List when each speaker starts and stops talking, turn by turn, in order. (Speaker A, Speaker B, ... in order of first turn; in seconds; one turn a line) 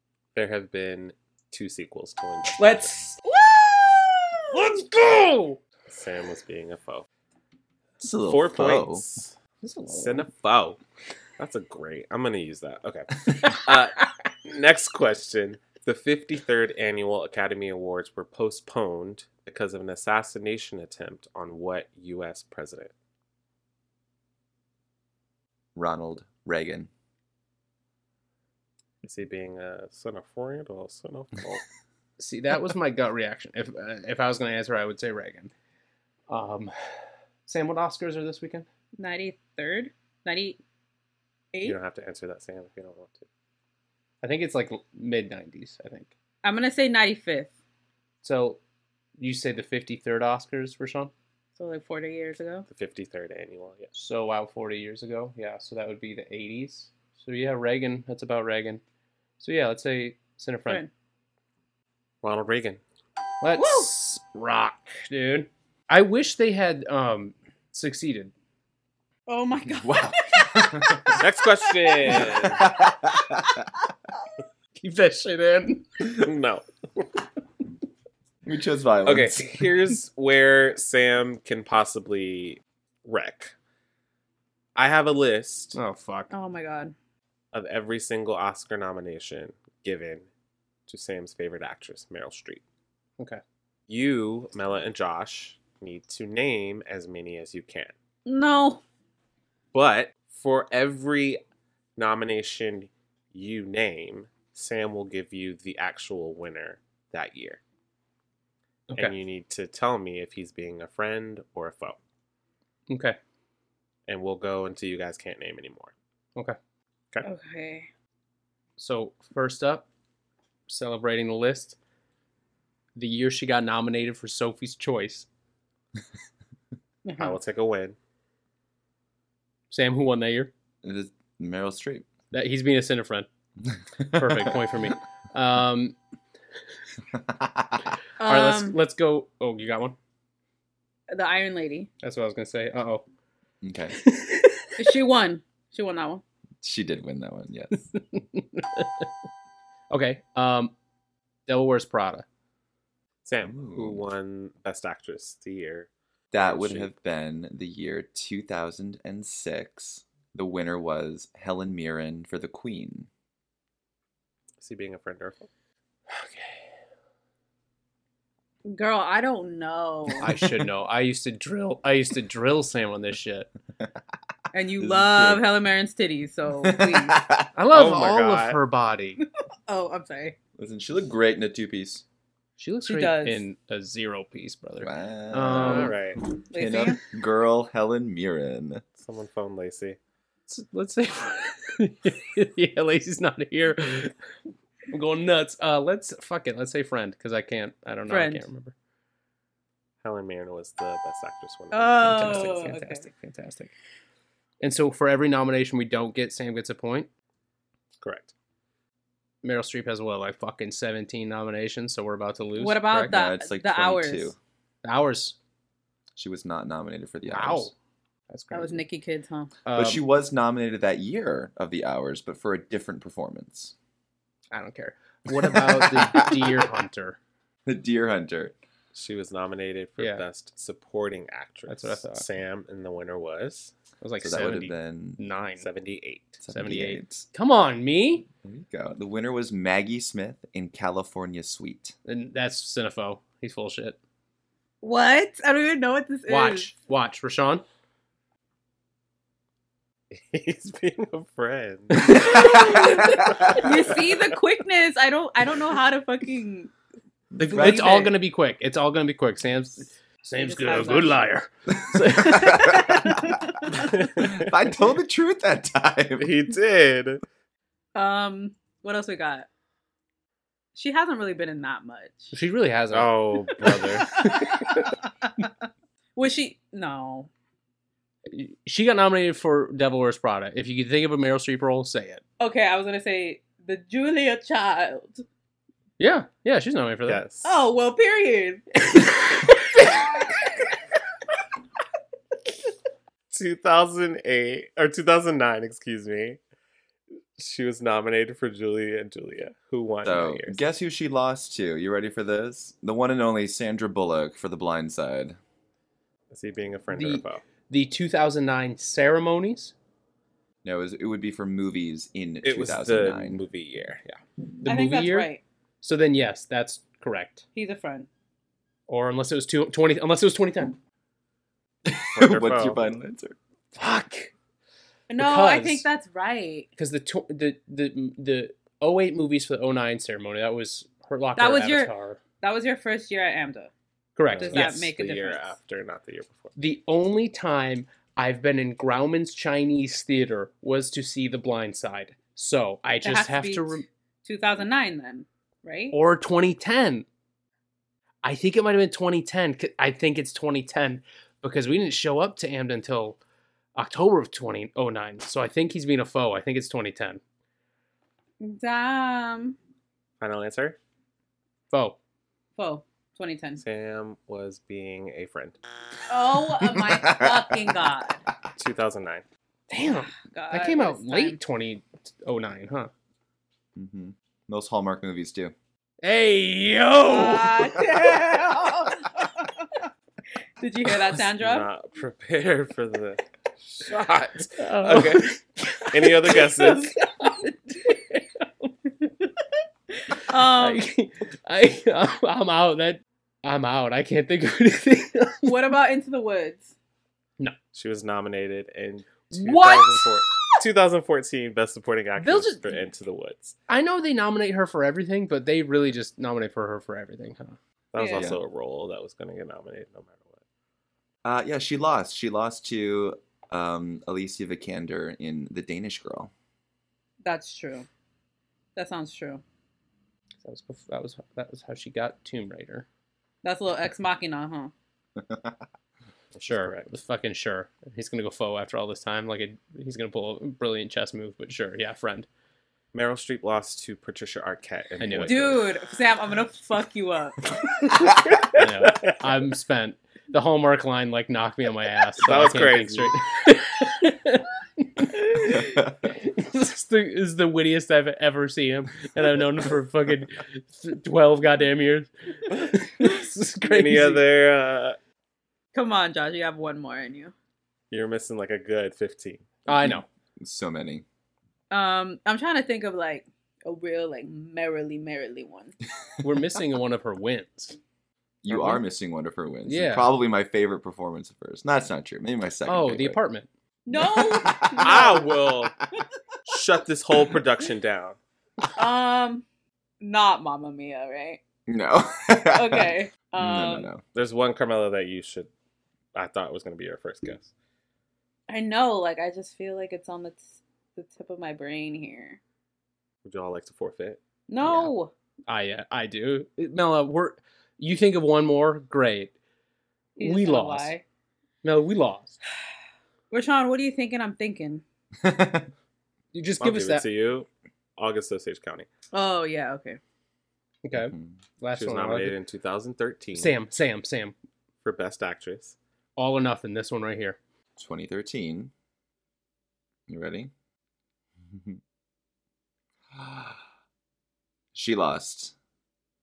Speaker A: 0.3-2.9
Speaker B: 2.6-3.2
Speaker C: 3.2-4.4
Speaker B: 4.5-5.6
Speaker A: 5.9-7.0
Speaker D: 8.0-9.0
Speaker A: 8.2-9.4
Speaker B: 9.6-10.3
Speaker A: 9.9-10.8
Speaker A: 11.4-22.9
Speaker D: 25.8-26.9
Speaker A: 29.0-31.6
Speaker B: 32.2-35.5
Speaker B: 36.3-36.7
Speaker B: 37.5-38.6
Speaker C: 39.0-40.6
Speaker A: 41.6-43.3
Speaker B: 44.2-46.1
Speaker C: 46.4-47.5
Speaker B: 48.2-48.6
Speaker B: 49.2-51.1
Speaker C: 51.6-52.6
Speaker A: 52.7-53.9
Speaker B: 53.9-58.8
Speaker B: 59.4-60.8
Speaker A: 62.2-62.8
Speaker B: 63.4-68.3
Speaker C: 63.5-63.9
Speaker C: 69.3-72.3
Speaker D: 69.7-71.2
Speaker A: 71.2-72.6
Speaker D: 72.2-73.6
Speaker B: 74.8-76.2
Speaker A: 76.0-76.6
Speaker D: 78.5-79.7
Speaker A: 79.0-83.5
Speaker A: 84.8-85.8
Speaker B: 85.7-86.3
Speaker C: 86.3-86.9
Speaker A: 87.5-90.2
Speaker A: 90.9-92.6
Speaker A: 93.9-97.9
Speaker C: 98.2-98.8
Speaker A: 99.7-101.4
Speaker A: 102.0-107.6
Speaker A: 108.9-112.0
Speaker B: 112.9-113.2
Speaker A: 114.1-115.9
Speaker C: 117.2-117.9
Speaker B: 118.8-119.9
Speaker B: 120.7-121.8
Speaker B: 122.9-125.3
Speaker C: 127.0-127.4
Speaker A: 127.2-128.0
Speaker B: 129.7-130.5
Speaker D: 130.8-132.1
Speaker B: 132.3-133.3
Speaker D: 133.7-134.7
Speaker B: 134.1-136.0
Speaker D: 137.1-137.8
Speaker C: 138.2-138.8
Speaker B: 138.2-139.9
Speaker C: 141.1-141.9
Speaker B: 142.0-143.0
Speaker D: 143.6-144.0
Speaker B: 144.0-144.8
Speaker C: 144.8-146.2
Speaker D: 146.6-147.9
Speaker B: 147.9-149.1
Speaker B: 149.9-150.7
Speaker B: 151.5-152.2
Speaker A: 153.2-156.9
Speaker D: 153.4-154.1
Speaker D: 156.3-163.1
Speaker A: 164.6-165.5
Speaker B: 166.1-166.6
Speaker C: 168.6-170.2
Speaker B: 170.2-173.5
Speaker C: 174.5-177.2
Speaker D: 174.8-175.6
Speaker D: 176.6-177.5
Speaker B: 177.6-179.2
Speaker A: 177.7-178.6
Speaker C: 179.7-180.4
Speaker D: 180.6-182.0
Speaker B: 182.6-186.0
Speaker C: 182.9-183.4
Speaker D: 184.8-185.9
Speaker A: 185.5-186.2
Speaker C: 186.5-187.0
Speaker D: 186.5-188.8
Speaker A: 189.0-190.0
Speaker B: 190.5-194.1
Speaker B: 194.9-198.8
Speaker C: 198.1-198.5
Speaker A: 200.0-202.7
Speaker C: 201.7-203.1
Speaker B: 202.0-203.7
Speaker B: 204.6-207.1
Speaker A: 208.0-208.3
Speaker B: 209.4-213.2
Speaker C: 212.6-214.3
Speaker D: 212.9-214.4
Speaker B: 214.8-215.4
Speaker D: 216.2-217.7
Speaker B: 217.3-217.7
Speaker B: 218.3-218.8
Speaker C: 218.5-219.5
Speaker B: 219.6-220.0
Speaker D: 219.7-223.7
Speaker B: 224.5-227.2
Speaker D: 225.4-226.7
Speaker D: 227.7-228.6
Speaker A: 228.9-233.7
Speaker B: 230.0-230.2
Speaker B: 231.7-232.2
Speaker B: 234.0-235.7
Speaker D: 234.2-235.2
Speaker A: 235.6-236.4
Speaker D: 236.4-237.2
Speaker B: 236.5-238.3
Speaker D: 238.4-241.9
Speaker B: 242.1-244.0
Speaker C: 244.8-246.7
Speaker B: 246.3-247.6
Speaker A: 250.1-252.2
Speaker B: 251.9-252.6
Speaker C: 252.1-256.7
Speaker D: 252.1-253.7
Speaker D: 257.3-258.1
Speaker B: 257.4-263.2
Speaker C: 257.5-258.1
Speaker C: 260.4-261.2
Speaker D: 261.7-266.3
Speaker C: 262.4-263.9
Speaker A: 263.9-264.5
Speaker A: 266.2-267.2
Speaker C: 267.9-269.5
Speaker C: 270.8-272.3
Speaker B: 272.3-274.9
Speaker A: 272.9-274.2
Speaker C: 274.2-275.5
Speaker C: 276.1-277.3
Speaker B: 278.3-282.2
Speaker C: 282.4-285.2
Speaker B: 286.0-287.2
Speaker A: 287.1-287.5
Speaker C: 287.4-288.8
Speaker B: 288.9-289.8
Speaker A: 293.3-296.4
Speaker A: 297.4-300.6
Speaker D: 300.0-305.4
Speaker A: 306.3-307.4
Speaker B: 306.9-309.7
Speaker D: 310.6-313.4
Speaker A: 312.4-314.2
Speaker B: 314.6-315.3
Speaker C: 314.6-315.4
Speaker B: 315.8-317.4
Speaker C: 317.5-318.1
Speaker B: 318.9-320.8
Speaker D: 321.8-323.4
Speaker A: 322.1-322.9
Speaker B: 323.8-324.3
Speaker C: 325.1-326.7
Speaker B: 325.2-325.9
Speaker B: 326.8-332.2
Speaker C: 331.4-333.7
Speaker B: 334.2-334.9
Speaker A: 334.3-336.5
Speaker C: 334.4-335.5
Speaker B: 336.6-343.8
Speaker C: 343.0-345.9
Speaker B: 345.9-347.1
Speaker B: 348.2-353.2
Speaker B: 353.8-357.2
Speaker C: 358.4-359.6
Speaker A: 360.2-360.8
Speaker B: 361.7-362.0
Speaker C: 362.6-363.6
Speaker A: 363.6-365.6
Speaker C: 366.1-368.2
Speaker D: 366.6-367.9
Speaker A: 368.6-369.2
Speaker B: 369.7-372.9
Speaker C: 370.3-371.4
Speaker D: 373.7-375.5
Speaker B: 376.0-377.7
Speaker C: 377.1-379.7
Speaker C: 380.6-381.7
Speaker A: 381.2-385.2
Speaker B: 384.6-388.7
Speaker A: 385.9-386.9
Speaker C: 390.1-390.9
Speaker B: 390.3-395.8
Speaker C: 395.4-396.7
Speaker A: 397.7-403.6
Speaker B: 399.3-400.4
Speaker B: 402.2-402.7
Speaker B: 403.7-407.6
Speaker A: 407.9-410.4
Speaker C: 407.9-408.3
Speaker D: 408.1-408.4
Speaker D: 411.2-416.3
Speaker C: 417.2-417.9
Speaker C: 418.8-419.4
Speaker B: 420.4-422.9
Speaker C: 423.4-424.7
Speaker D: 425.2-425.6
Speaker A: 426.4-426.9
Speaker B: 426.4-432.3
Speaker A: 432.9-435.6
Speaker B: 435.0-435.4
Speaker C: 435.2-437.6
Speaker B: 438.4-454.2
Speaker A: 442.2-443.1
Speaker D: 445.5-445.9
Speaker A: 453.6-455.0
Speaker C: 455.7-457.3
Speaker A: 457.9-459.4
Speaker B: 459.7-460.1
Speaker D: 459.8-461.0
Speaker C: 461.7-465.7
Speaker B: 466.2-467.8
Speaker D: 468.4-473.2
Speaker B: 468.5-468.8
Speaker B: 469.6-470.1
Speaker B: 472.6-473.5
Speaker C: 473.9-475.4
Speaker D: 473.9-475.7
Speaker A: 474.8-475.7
Speaker A: 476.4-478.2
Speaker C: 478.7-479.4
Speaker C: 480.0-481.4
Speaker D: 481.7-484.0
Speaker C: 482.5-483.9
Speaker A: 484.1-485.5
Speaker A: 486.1-487.5
Speaker C: 488.5-492.4
Speaker A: 493.2-494.2
Speaker C: 494.5-495.1
Speaker B: 495.5-499.3
Speaker B: 500.2-500.9
Speaker C: 500.2-501.0
Speaker B: 501.6-502.4
Speaker C: 503.3-504.8
Speaker D: 505.2-505.7
Speaker B: 506.3-507.1
Speaker A: 506.6-508.9
Speaker C: 509.1-510.0
Speaker B: 510.8-512.4
Speaker D: 510.9-511.4
Speaker A: 511.7-513.6
Speaker B: 513.4-514.4
Speaker A: 514.8-515.8
Speaker B: 516.2-517.4
Speaker D: 517.8-518.7
Speaker D: 520.1-520.5
Speaker D: 521.5-521.8
Speaker D: 523.1-523.6
Speaker D: 524.7-525.5